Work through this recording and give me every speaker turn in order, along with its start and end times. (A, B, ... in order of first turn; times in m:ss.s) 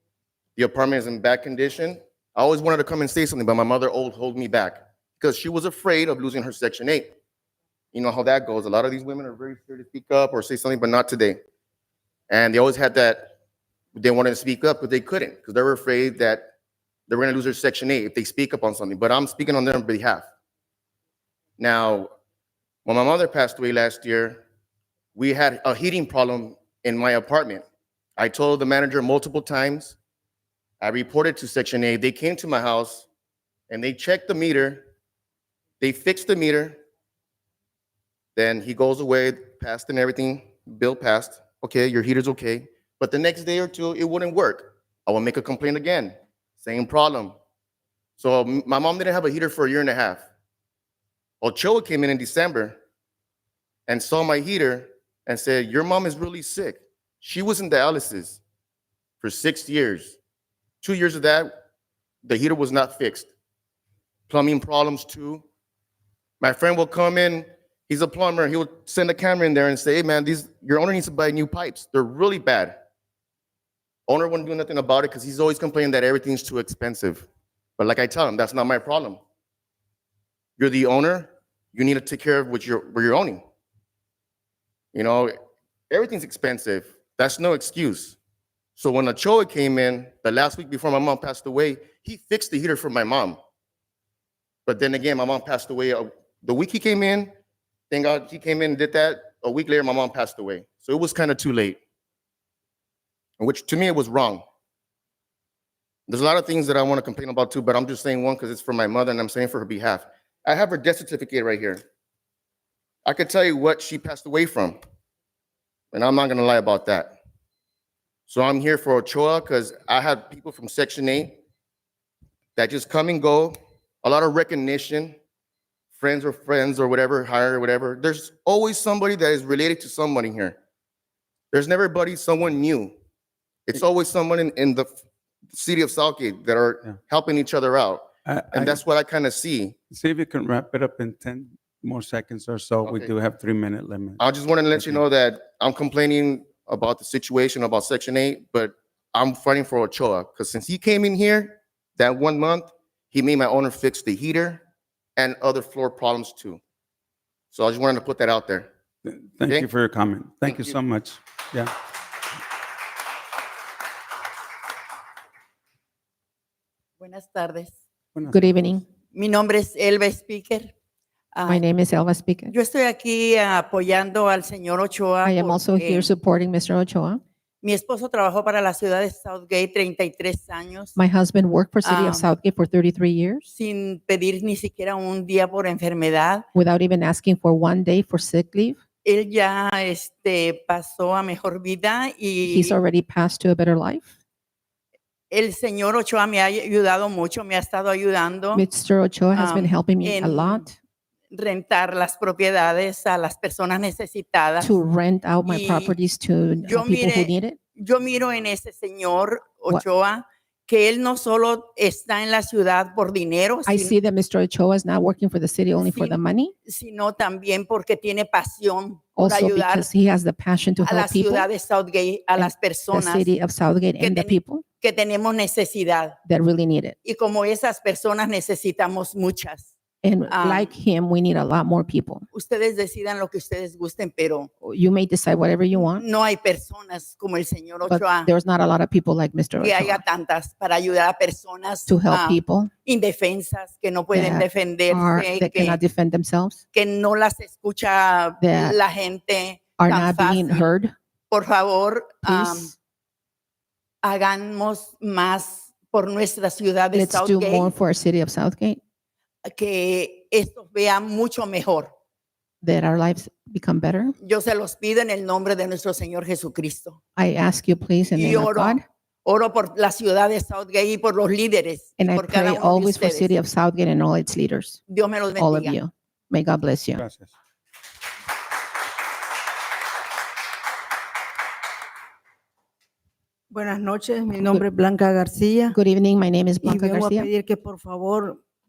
0:00.6-0:07.1 A
0:07.9-0:11.4 A
0:12.3-0:13.3 A
0:13.9-0:16.4 A
0:17.1-0:20.3 A
0:21.6-0:22.1 A
0:22.8-0:24.4 A
0:25.1-0:27.6 A
0:28.2-0:30.0 A
0:30.8-0:33.1 A
0:33.7-0:34.8 A
0:35.8-0:36.8 A
0:38.4-0:47.3 A
0:48.2-0:50.2 A
0:51.4-0:52.7 A
0:53.9-0:58.4 A
0:59.2-1:00.2 A
1:00.8-1:01.5 A
1:02.2-1:03.3 A
1:04.3-1:05.4 A
1:06.4-1:12.8 A
1:14.1-1:17.2 A
1:17.8-1:19.2 A
1:20.6-1:23.4 A
1:24.9-1:25.3 A
1:25.9-1:28.2 A
1:28.8-1:33.4 A
1:34.6-1:37.3 A
1:37.9-1:41.8 A
1:43.4-1:44.4 A
1:46.1-1:51.8 A
1:53.0-1:54.8 A
1:55.9-1:57.1 A
1:58.3-2:01.4 A
2:02.6-2:05.2 A
2:05.9-2:10.6 A
2:11.5-2:12.9 A
2:13.7-2:14.9 A
2:15.5-2:19.8 A
2:18.2-2:18.8 B
2:19.9-2:25.0 B
2:22.8-2:23.1 A
2:24.2-2:34.6 A
2:35.2-2:36.6 A
2:37.5-2:38.7 A
2:39.0-2:41.7 B
2:40.5-2:40.7 A
2:47.0-2:47.8 C
2:48.1-2:48.4 B
2:48.3-2:48.8 D
2:49.1-2:50.7 C
2:51.3-2:51.6 C
2:51.5-2:52.5 D
2:52.5-2:56.1 C
2:55.2-2:57.2 D
2:57.6-3:01.0 C
3:01.0-3:03.4 D
3:01.8-3:02.3 C
3:03.5-3:06.4 C
3:06.5-3:08.8 D
3:09.0-3:12.8 C
3:12.4-3:14.1 D
3:15.3-3:18.6 C
3:18.5-3:20.8 D
3:19.3-3:20.7 C
3:21.3-3:24.7 C
3:24.6-3:27.6 D
3:25.4-3:26.0 C
3:26.6-3:34.0 C
3:33.6-3:36.5 D
3:35.8-3:39.9 C
3:39.2-3:41.5 D
3:40.8-3:43.3 C
3:42.4-3:44.6 D
3:44.0-3:46.2 C
3:46.2-3:47.0 D
3:47.0-3:49.7 C
3:50.0-3:52.2 D
3:50.3-3:50.7 C
3:52.3-3:54.5 C
3:54.6-3:56.0 D
3:55.8-3:58.3 C
3:57.9-4:00.0 D
3:59.6-4:05.8 C
4:01.9-4:02.7 D
4:04.1-4:06.6 D
4:06.7-4:10.6 C
4:08.4-4:08.8 D
4:09.8-4:10.9 D
4:11.3-4:12.7 C
4:12.2-4:12.7 D
4:14.0-4:17.7 C
4:16.9-4:18.8 D
4:19.5-4:21.9 C
4:22.6-4:24.1 D
4:24.2-4:27.0 C
4:27.2-4:28.8 D
4:28.1-4:33.3 C
4:32.0-4:34.8 D
4:34.9-4:35.7 C
4:35.4-4:37.0 D
4:37.0-4:37.3 B
4:43.5-4:45.8 E
4:45.7-4:47.3 D
4:46.6-4:48.4 E